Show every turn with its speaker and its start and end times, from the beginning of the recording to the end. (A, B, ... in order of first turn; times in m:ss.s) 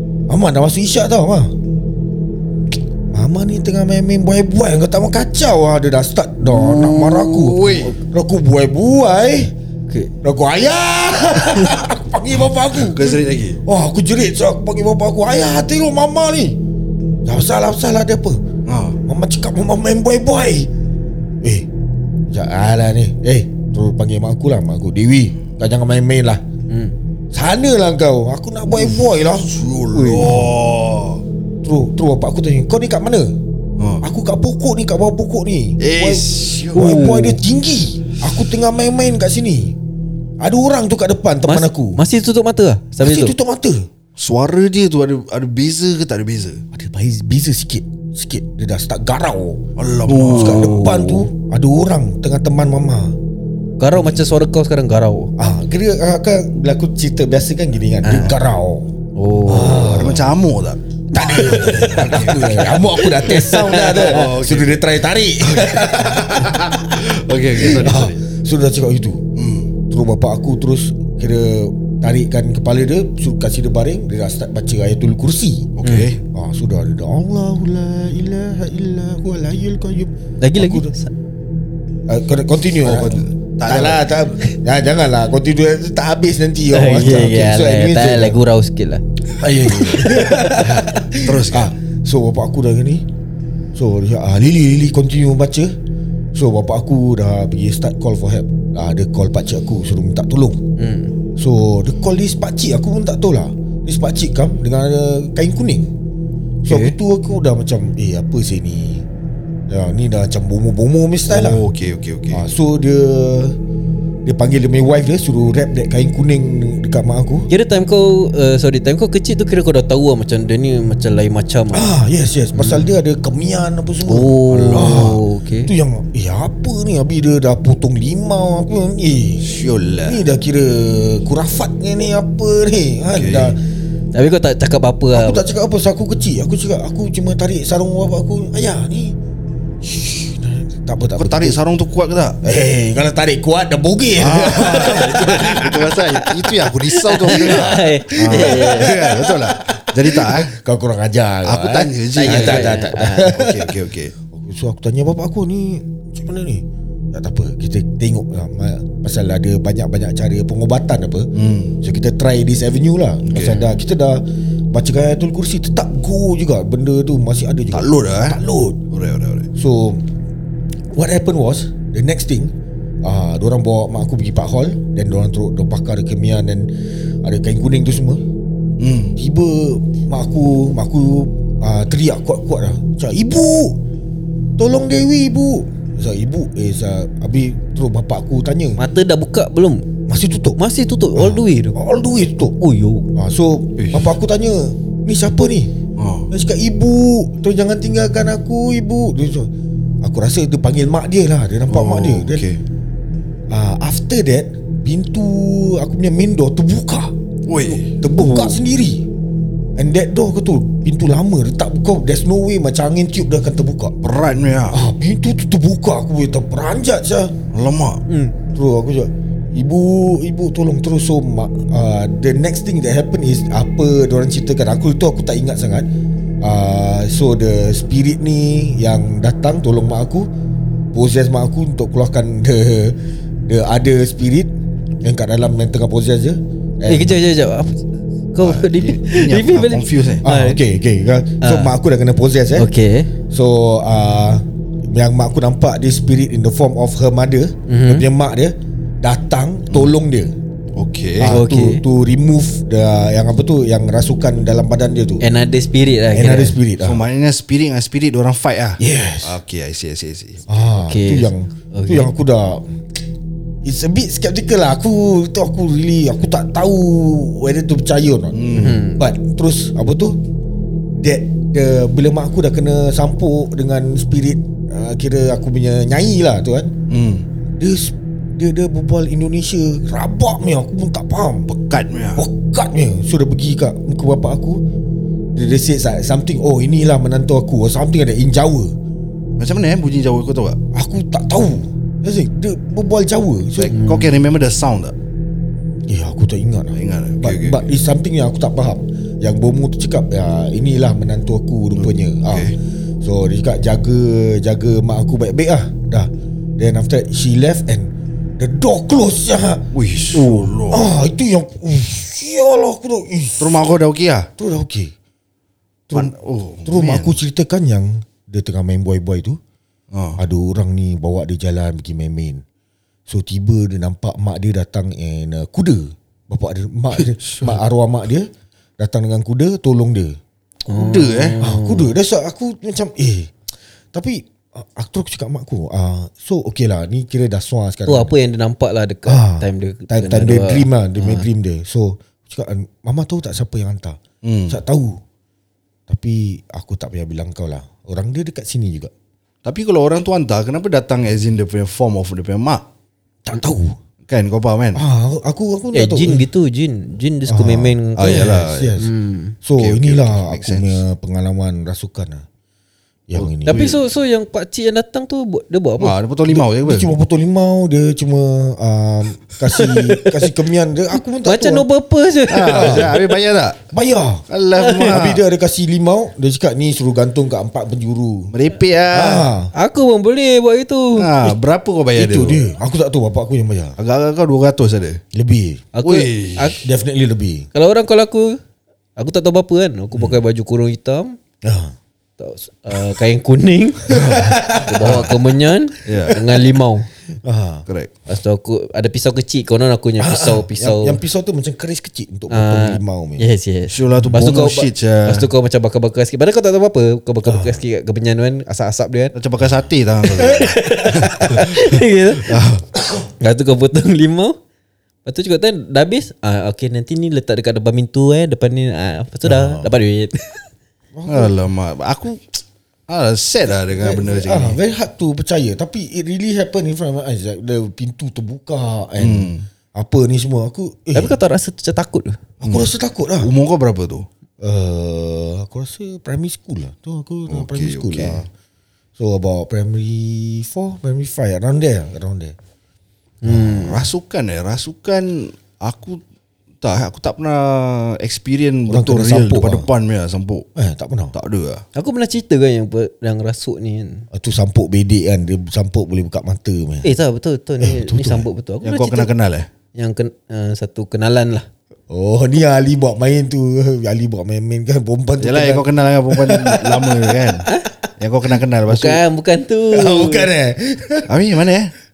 0:00.3-0:01.5 A
0:03.1-0:09.5 A
0:06.6-0:07.9 B
0:10.2-0:16.6 A
0:11.4-0:11.8 C
0:12.7-0:13.6 B
0:17.2-0:18.4 A
0:18.7-0:19.0 B
0:19.0-0:20.7 A
0:21.4-0:21.7 A
0:22.3-0:26.4 A
0:27.3-0:30.5 A
0:28.7-0:31.2 B
0:30.0-0:30.4 C
0:31.6-0:33.4 A
0:33.8-0:34.0 B
0:34.0-0:39.8 A
0:35.8-0:37.2 B
0:36.8-0:37.4 C
0:40.4-0:42.0 A
0:41.5-0:43.4 C
0:43.0-0:43.8 A
0:44.2-0:46.6 B
0:46.7-0:53.2 A
0:49.8-0:50.8 B
0:50.1-0:51.3 C
0:53.8-0:55.3 C
0:55.4-0:58.9 A
0:58.0-0:58.3 C
0:59.2-0:59.9 C
0:59.3-1:00.8 B
0:59.5-1:00.3 A
1:01.1-1:09.2 A
1:01.2-1:04.3 C
1:01.4-1:04.8 B
1:05.5-1:08.2 B
1:09.4-1:09.7 B
1:09.9-1:15.7 A
1:15.8-1:16.2 B
1:15.8-1:16.1 C
1:16.3-1:20.9 A
1:20.4-1:21.1 C
1:22.1-1:28.4 A
1:22.8-1:24.3 B
1:26.7-1:29.0 C
1:29.4-1:33.0 A
1:29.7-1:30.7 C
1:30.4-1:31.7 B
1:33.7-1:35.7 A
1:36.3-1:40.6 A
1:40.8-1:41.1 C
1:41.4-1:45.9 A
1:46.6-1:49.0 A
1:46.7-1:47.0 C
1:49.7-1:51.6 A
1:51.3-1:52.4 B
1:52.3-1:53.6 A
1:54.2-1:57.5 A
1:57.5-2:01.9 C
2:01.7-2:09.5 A
2:02.5-2:02.9 C
2:04.0-2:05.7 C
2:04.5-2:05.1 B
2:09.4-2:10.2 B
2:10.0-2:13.6 A
2:13.1-2:13.6 B
2:14.1-2:15.4 C
2:15.1-2:19.2 A
2:19.8-2:21.6 A
2:21.2-2:22.4 B
2:22.4-2:41.3 A
2:24.2-2:30.6 B
2:27.1-2:29.3 C
2:31.4-2:34.2 B
2:32.2-2:33.3 C
2:41.4-2:41.8 B
2:41.8-2:48.8 A
2:43.3-2:43.7 B
2:47.7-2:49.5 B
2:49.6-2:50.0 A
2:51.0-2:56.7 A
2:57.2-2:58.2 A
2:58.8-2:59.2 B
2:59.2-3:03.8 A
3:04.6-3:08.8 A
3:08.8-3:09.9 C
3:10.1-3:10.6 A
3:10.6-3:11.8 C
3:11.2-3:12.6 A
3:12.6-3:13.1 C
3:13.2-3:15.7 A
3:13.8-3:14.1 B
3:16.0-3:16.3 B
3:16.3-3:19.5 A
3:20.0-3:22.4 A
3:21.7-3:22.6 B
3:23.5-3:27.1 A
3:27.5-3:27.9 B
3:27.7-3:29.0 A
3:28.1-3:28.6 C
3:29.8-3:34.0 A
3:34.0-3:34.8 B
3:34.7-3:37.3 A
3:37.5-3:38.0 B
3:38.1-3:38.4 C
3:38.5-3:45.9 A
3:46.4-3:50.3 A
3:50.9-3:54.5 A
3:55.0-3:57.2 A
3:56.9-3:57.8 C
3:58.3-4:00.6 C
3:58.4-4:00.2 B
4:00.2-4:02.7 A
4:01.4-4:01.7 C
4:02.6-4:03.1 C
4:03.3-4:10.3 A
4:07.7-4:08.1 C
4:10.8-4:11.4 B
4:11.2-4:15.3 A
4:11.2-4:11.8 C
4:15.2-4:16.6 C
4:16.1-4:17.0 A
4:16.8-4:20.4 B
4:18.8-4:19.4 A
4:20.5-4:22.6 A
4:20.8-4:22.1 C
4:23.6-4:30.2 A
4:28.3-4:28.8 B
4:28.6-4:29.1 C
4:31.0-4:36.7 A
4:36.9-4:37.3 B
4:37.6-4:41.5 A
4:41.5-4:42.2 B
4:42.2-4:44.6 A
4:45.3-4:48.8 A
4:49.4-4:50.6 B
4:50.7-4:53.8 A
4:53.6-4:55.0 B
4:53.7-4:54.1 C
4:55.9-5:13.6 A
4:56.8-4:57.7 B
5:01.8-5:02.6 B
5:09.7-5:10.9 B
5:13.4-5:14.3 B
5:14.4-5:14.9 A
5:15.9-5:16.1 A
5:15.9-5:17.2 B
5:16.7-5:19.4 A
5:19.9-5:20.2 B
5:20.2-5:22.4 A
5:23.1-5:30.2 A
5:27.0-5:27.6 B
5:30.7-5:31.9 C
5:30.7-5:31.4 B
5:31.4-5:33.3 A
5:33.9-5:38.1 A
5:37.9-5:41.3 C
5:39.1-5:45.0 A
5:44.2-5:44.6 B
5:45.9-5:48.9 A
5:49.4-5:52.6 B
5:53.2-5:53.8 A
5:54.1-5:54.8 B
5:54.8-5:56.3 A
5:55.7-5:59.4 C
5:57.3-5:58.9 A
5:58.0-5:58.7 B
5:59.4-6:02.2 A
5:59.6-6:00.8 B
6:03.1-6:03.7 A
6:03.2-6:03.8 B
6:03.4-6:06.0 C
6:05.8-6:06.9 B
6:06.3-6:11.7 A
6:09.5-6:10.3 C
6:11.2-6:13.2 C
6:12.3-6:13.6 B
6:12.5-6:13.0 A
6:13.7-6:14.3 A
6:14.3-6:15.2 B
6:14.6-6:14.9 C
6:14.8-6:18.3 A
6:18.3-6:19.3 B
6:18.9-6:19.5 A
6:19.6-6:21.3 C
6:21.0-6:22.4 B
6:22.0-6:23.8 A
6:23.8-6:25.0 B
6:25.1-6:25.7 A
6:25.7-6:26.6 C
6:25.8-6:26.6 B
6:26.6-6:27.5 A
6:27.5-6:28.4 C
6:29.0-6:31.2 C
6:31.4-6:31.8 A
6:32.2-6:36.9 C
6:33.9-6:35.2 A
6:33.9-6:35.2 B
6:35.8-6:36.3 B
6:37.2-6:37.6 A
6:38.1-6:41.0 C
6:40.0-6:43.2 A
6:42.3-6:49.1 C
6:43.7-6:45.3 B
6:44.0-6:44.2 A
6:47.2-6:47.6 A
6:49.2-6:52.7 B
6:50.2-6:52.3 C
6:53.2-6:54.4 C
6:55.0-7:00.4 C
6:59.2-6:59.7 A
7:00.9-7:01.4 A
7:01.1-7:04.6 B
7:03.7-7:11.2 A
7:09.0-7:09.4 B
7:10.9-7:12.2 C
7:12.4-7:13.3 A
7:12.4-7:14.1 B
7:14.4-7:18.3 A
7:17.3-7:18.2 B
7:19.0-7:22.4 A
7:23.2-7:23.7 C
7:23.3-7:26.0 B
7:23.3-7:23.6 A
7:26.6-7:30.5 B
7:28.7-7:29.7 A
7:30.6-7:31.2 A
7:31.1-7:31.6 B
7:31.8-7:34.1 C
7:34.1-7:36.9 A
7:36.8-7:39.1 C
7:37.6-7:38.3 A
7:38.6-7:39.5 B
7:39.8-7:41.5 C
7:41.9-7:47.4 A
7:45.2-7:49.0 B
7:48.7-7:50.3 C
7:49.7-7:51.1 A
7:51.1-7:51.7 B